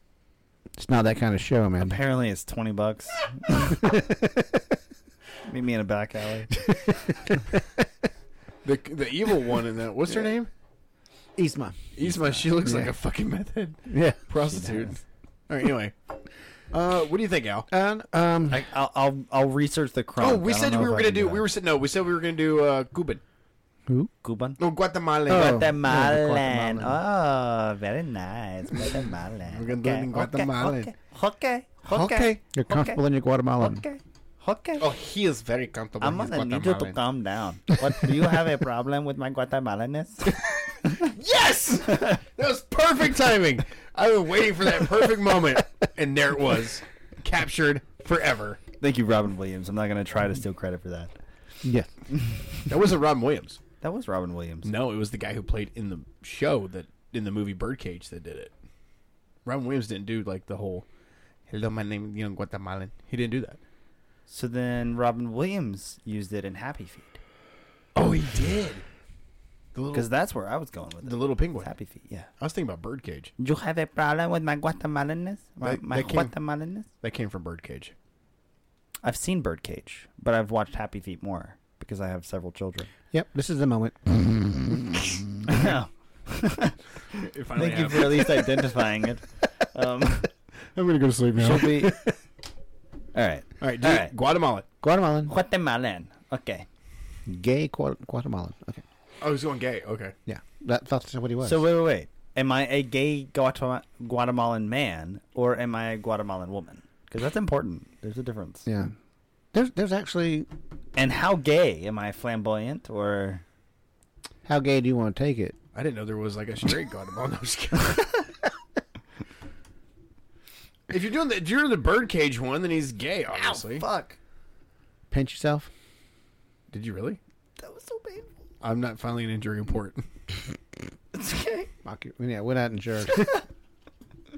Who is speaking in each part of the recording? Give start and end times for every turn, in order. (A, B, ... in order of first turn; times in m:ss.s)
0:00.8-0:02.0 A
0:01.8-0:03.8 B
0:03.5-0:04.6 A
0:05.5-0:07.0 B
0:06.7-0:07.8 A
0:08.6-0:10.5 C
0:11.4-0:11.8 A
0:12.0-0:15.0 C
0:12.0-0:12.5 B
0:12.6-0:12.9 A
0:13.9-0:14.2 A
0:14.4-0:15.0 B
0:15.5-0:16.0 C
0:16.7-0:17.7 C
0:17.7-0:18.6 A
0:18.5-0:21.4 B
0:20.2-0:23.2 C
0:24.2-0:24.6 B
0:24.6-0:25.8 C
0:25.3-0:27.0 A
0:25.3-0:33.0 B
0:29.5-0:30.9 C
0:31.9-0:32.4 C
0:32.5-0:33.8 A
0:33.6-0:34.8 B
0:34.8-0:37.0 C
0:36.0-0:41.1 B
0:40.8-0:48.6 C
0:48.8-0:51.2 B
0:51.6-0:51.9 A
0:52.7-0:53.6 C
0:53.8-0:54.7 B
0:54.6-0:58.5 C
0:59.4-1:00.9 C
1:01.5-1:03.6 C
1:04.3-1:07.2 B
1:08.0-1:08.8 C
1:09.8-1:10.1 C
1:09.9-1:12.3 B
1:11.0-1:11.7 C
1:12.4-1:13.3 C
1:13.4-1:16.9 B
1:15.6-1:16.3 C
1:17.0-1:17.9 C
1:19.0-1:22.9 B
1:23.1-1:25.2 A
1:25.4-1:30.3 B
1:27.2-1:28.5 C
1:30.8-1:32.1 C
1:31.4-1:32.0 B
1:33.1-1:34.1 B
1:33.6-1:34.7 C
1:34.8-1:35.3 A
1:35.3-1:36.7 B
1:37.3-1:38.8 A
1:39.2-1:40.1 C
1:40.3-1:41.6 A
1:41.4-1:48.6 B
1:48.7-1:48.9 A
1:49.5-1:50.5 A
1:51.0-1:53.4 B
1:54.4-1:55.6 A
1:55.7-1:58.2 C
2:00.9-2:03.8 C
2:03.3-2:04.2 B
2:05.1-2:05.7 A
2:06.7-2:07.2 C
2:07.6-2:08.3 B
2:08.6-2:10.0 C
2:11.1-2:11.7 B
2:11.8-2:13.3 A
2:13.2-2:13.4 B